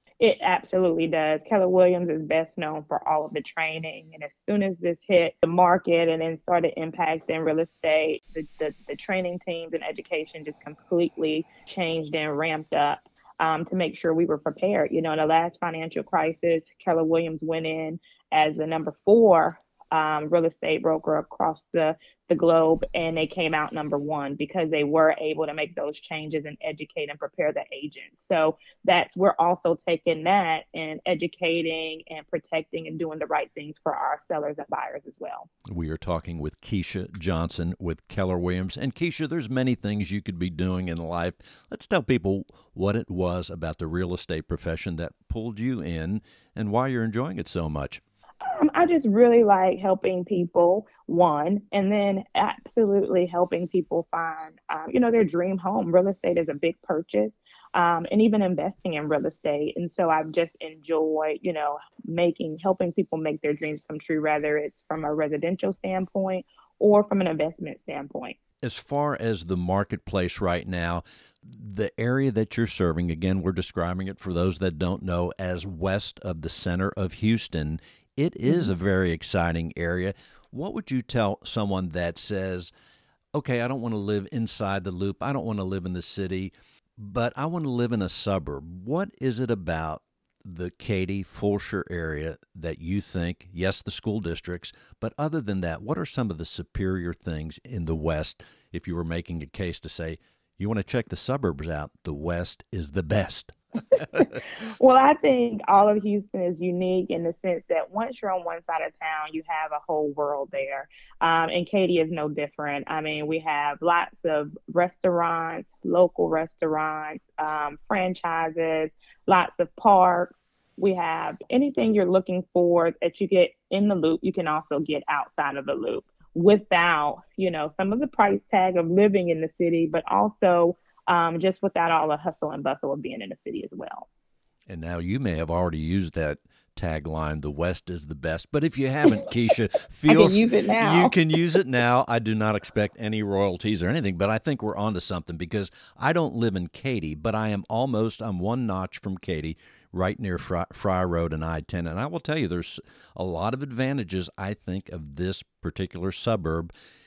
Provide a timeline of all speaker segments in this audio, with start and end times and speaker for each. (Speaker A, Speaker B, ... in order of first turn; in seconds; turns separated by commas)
Speaker A: 0.2-35.5, Speaker B: 35.6-48.0, Speaker A: 48.4-68.4, Speaker B: 68.6-82.7, Speaker B: 83.3-104.3, Speaker A: 104.2-134.1, Speaker B: 134.7-156.7, Speaker A: 140.1-141.2